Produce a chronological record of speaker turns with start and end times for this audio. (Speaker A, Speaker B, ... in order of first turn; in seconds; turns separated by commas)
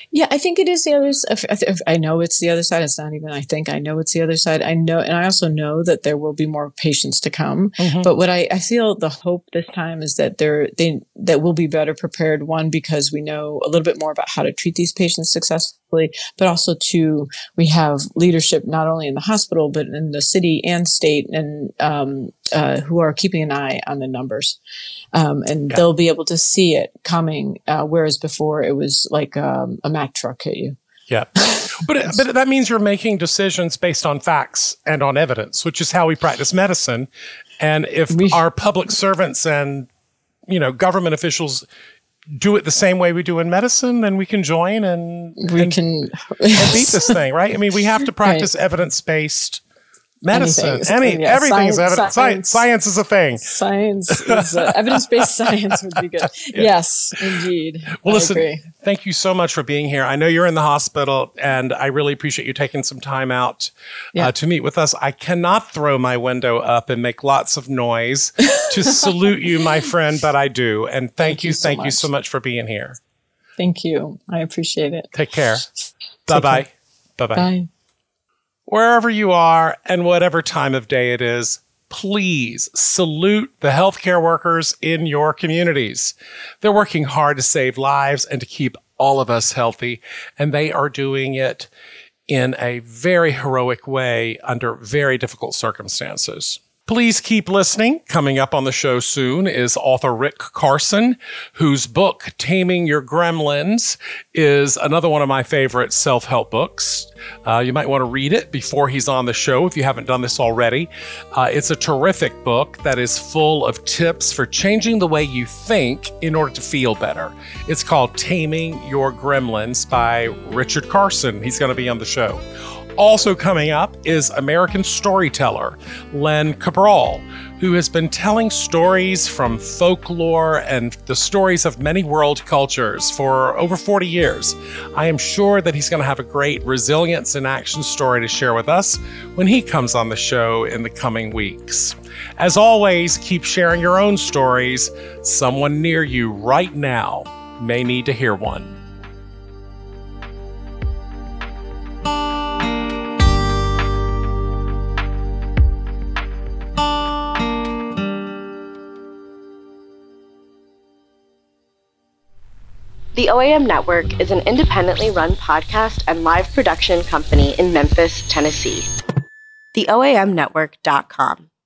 Speaker A: 0.1-24.6, Speaker B: 7.8-8.1, Speaker A: 25.1-30.8, Speaker B: 31.1-37.1, Speaker A: 31.4-31.8, Speaker B: 37.6-39.9, Speaker A: 38.1-38.4, Speaker B: 40.5-41.6, Speaker B: 42.3-45.8, Speaker A: 45.4-47.2, Speaker B: 46.6-49.6, Speaker B: 50.2-53.5, Speaker A: 50.3-52.6, Speaker A: 53.4-58.7, Speaker B: 54.3-55.5, Speaker B: 58.0-73.0, Speaker A: 71.2-72.1, Speaker A: 73.6-75.1, Speaker B: 75.1-75.7, Speaker B: 76.3-77.5, Speaker A: 76.3-76.6, Speaker A: 77.4-77.7, Speaker B: 78.7-91.7, Speaker B: 92.3-122.4, Speaker B: 123.0-148.8, Speaker C: 163.2-168.9, Speaker C: 169.7-171.5